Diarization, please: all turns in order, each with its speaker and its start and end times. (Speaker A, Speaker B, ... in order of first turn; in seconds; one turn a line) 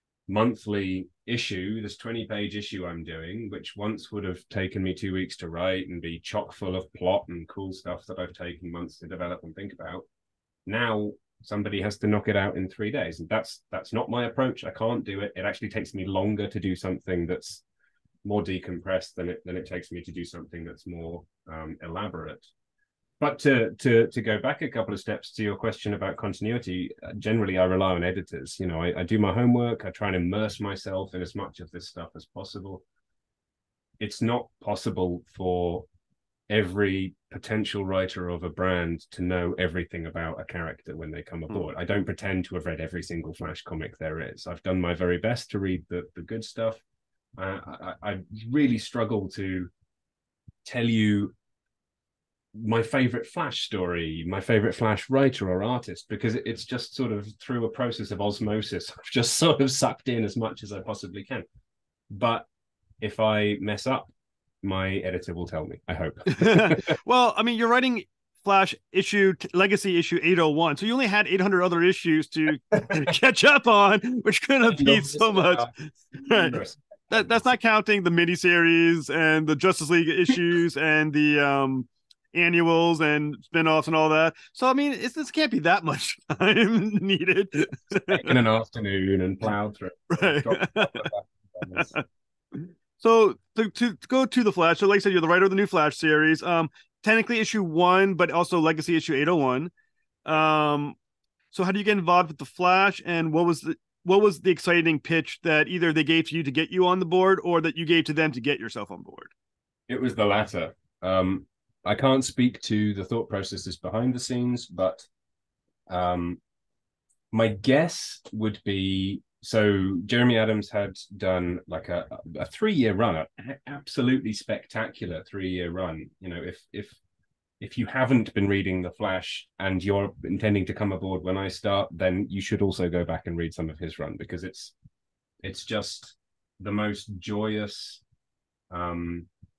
Speaker A: 0.3-10.1
Speaker A: 10.7-17.6
Speaker A: 18.2-22.5
Speaker A: 23.2-32.8
Speaker A: 34.0-35.9
Speaker A: 36.5-46.8
Speaker A: 47.4-49.7
Speaker A: 50.6-51.3
Speaker A: 52.5-61.5
Speaker A: 62.1-62.5
Speaker A: 63.0-64.1
Speaker A: 64.6-67.0
Speaker B: 66.3-76.6
Speaker A: 72.7-73.1
Speaker A: 74.7-77.4
Speaker B: 77.1-88.4
Speaker A: 88.1-91.9
Speaker B: 90.1-91.1
Speaker B: 91.7-92.0
Speaker B: 92.5-99.7
Speaker B: 100.2-101.0
Speaker B: 101.5-109.3
Speaker A: 109.9-115.1
Speaker A: 115.9-116.4
Speaker A: 117.3-127.0
Speaker A: 127.6-134.7
Speaker A: 135.4-138.0
Speaker A: 138.7-139.3